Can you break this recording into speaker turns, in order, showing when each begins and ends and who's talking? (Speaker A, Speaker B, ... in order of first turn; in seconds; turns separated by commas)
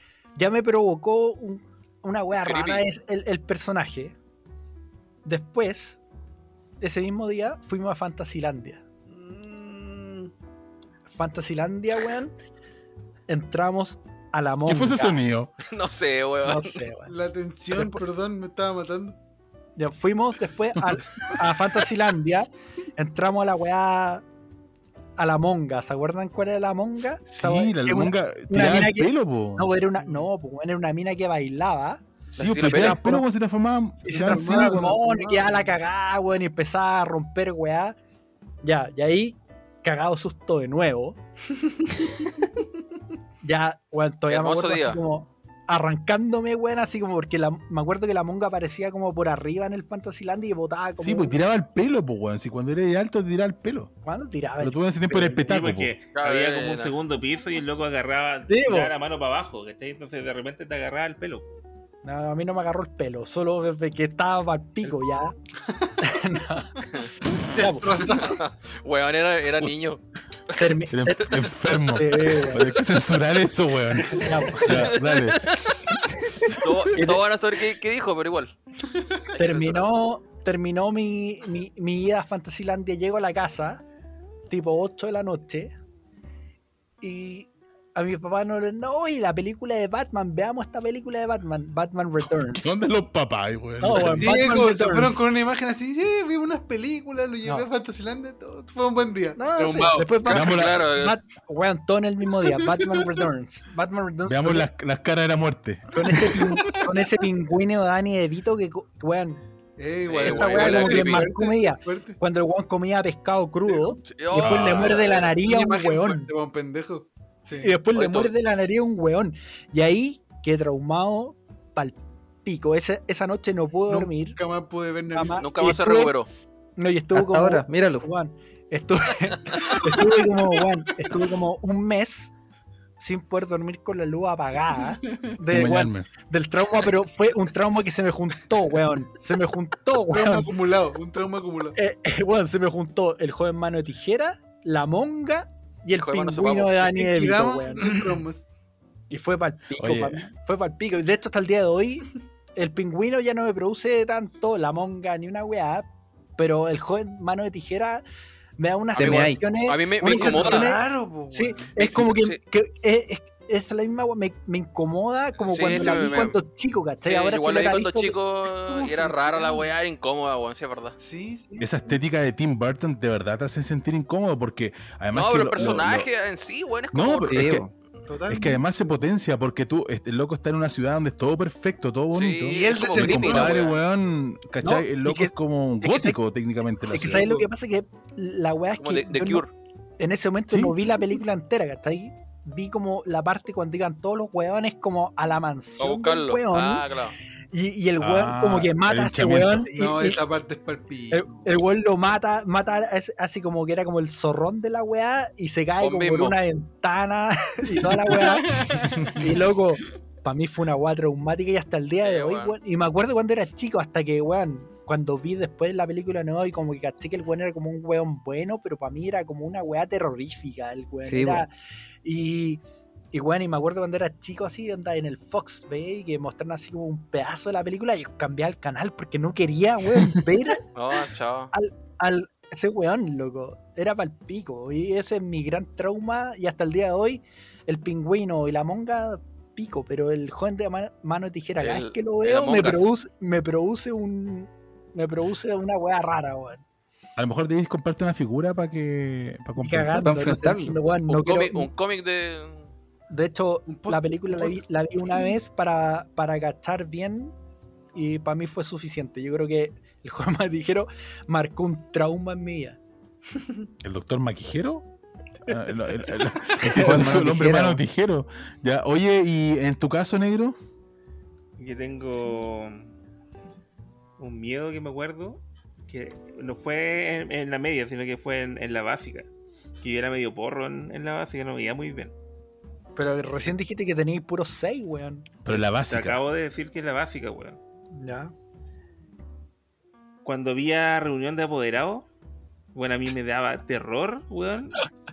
Speaker A: 0.3-4.2, Speaker B: 2.4-2.8, Speaker A: 5.2-6.0, Speaker A: 6.8-8.8, Speaker C: 9.1-10.3, Speaker A: 11.1-12.3, Speaker A: 13.3-15.2, Speaker D: 14.7-15.5, Speaker B: 15.6-16.8, Speaker A: 16.4-17.1, Speaker C: 17.1-19.2, Speaker A: 19.8-24.2, Speaker A: 25.2-33.3, Speaker D: 27.2-29.7, Speaker C: 30.0-30.2, Speaker D: 32.3-35.0, Speaker B: 32.3-33.0, Speaker C: 34.0-35.7, Speaker A: 34.0-38.0, Speaker A: 38.6-41.2, Speaker A: 43.4-51.4, Speaker B: 44.3-45.0, Speaker D: 51.0-53.9, Speaker A: 54.0-55.4, Speaker D: 54.6-55.9, Speaker E: 55.4-61.5, Speaker B: 56.1-56.9, Speaker A: 58.5-58.9, Speaker A: 62.0-65.3, Speaker A: 66.0-66.9, Speaker C: 67.3-68.4, Speaker A: 67.4-67.9, Speaker B: 68.1-70.7, Speaker A: 70.5-72.7, Speaker D: 70.9-76.7, Speaker A: 74.1-74.9, Speaker B: 74.6-75.9, Speaker B: 76.5-78.5, Speaker A: 76.9-77.2, Speaker B: 79.3-79.9, Speaker A: 79.4-83.8, Speaker A: 84.5-85.7, Speaker A: 87.0-92.7, Speaker D: 92.4-94.4, Speaker A: 93.8-95.2, Speaker C: 94.1-100.2, Speaker A: 99.3-104.7, Speaker B: 100.2-101.2, Speaker D: 100.3-100.8, Speaker C: 102.8-103.1, Speaker D: 104.2-106.5, Speaker A: 105.9-109.4, Speaker C: 109.8-112.2, Speaker B: 110.0-111.3, Speaker A: 110.2-116.3, Speaker B: 114.1-115.3, Speaker D: 114.3-114.9, Speaker C: 115.0-117.8, Speaker A: 117.6-124.4, Speaker B: 117.9-118.3, Speaker C: 123.9-125.8, Speaker A: 125.1-126.2, Speaker B: 125.4-126.3, Speaker A: 126.8-132.3, Speaker F: 127.1-128.1, Speaker C: 129.5-130.3, Speaker A: 133.0-140.5, Speaker D: 135.4-136.1, Speaker C: 140.1-141.8, Speaker A: 141.8-148.0, Speaker B: 146.0-146.8, Speaker C: 146.8-148.4, Speaker A: 149.1-158.0, Speaker D: 149.8-150.2, Speaker A: 158.6-168.2, Speaker B: 158.9-160.8, Speaker F: 158.9-159.4, Speaker C: 160.1-161.7, Speaker B: 161.8-162.4, Speaker B: 165.4-166.3, Speaker B: 167.0-170.9, Speaker C: 168.7-169.7, Speaker C: 171.0-171.7, Speaker D: 171.6-176.1, Speaker B: 175.1-177.6, Speaker D: 176.9-177.6, Speaker F: 177.2-177.7, Speaker C: 178.1-178.6, Speaker D: 178.3-187.3, Speaker B: 182.1-183.8, Speaker C: 182.5-183.7, Speaker A: 184.6-186.2, Speaker A: 186.9-189.4, Speaker B: 188.8-189.5, Speaker A: 190.0-196.8, Speaker D: 190.5-190.8, Speaker B: 195.8-197.2, Speaker A: 197.5-200.2, Speaker D: 198.0-199.7, Speaker C: 199.7-201.6, Speaker A: 201.1-221.5, Speaker B: 205.8-206.4, Speaker C: 207.9-209.3, Speaker B: 212.0-212.6, Speaker F: 221.0-221.4, Speaker A: 222.0-230.6, Speaker B: 230.7-231.5, Speaker A: 231.5-246.6, Speaker B: 241.6-242.9, Speaker D: 247.2-250.2, Speaker A: 249.6-251.7, Speaker F: 250.0-250.8, Speaker B: 251.1-252.7, Speaker A: 253.1-257.3, Speaker C: 253.7-255.3, Speaker A: 257.9-262.8, Speaker D: 263.8-264.9, Speaker D: 265.4-270.6, Speaker F: 266.6-267.8, Speaker E: 271.6-272.9, Speaker E: 274.2-279.3, Speaker E: 279.8-282.1, Speaker A: 282.9-285.3, Speaker D: 285.4-286.2, Speaker E: 285.9-287.6, Speaker A: 287.9-288.3, Speaker E: 290.2-292.1, Speaker E: 292.7-294.8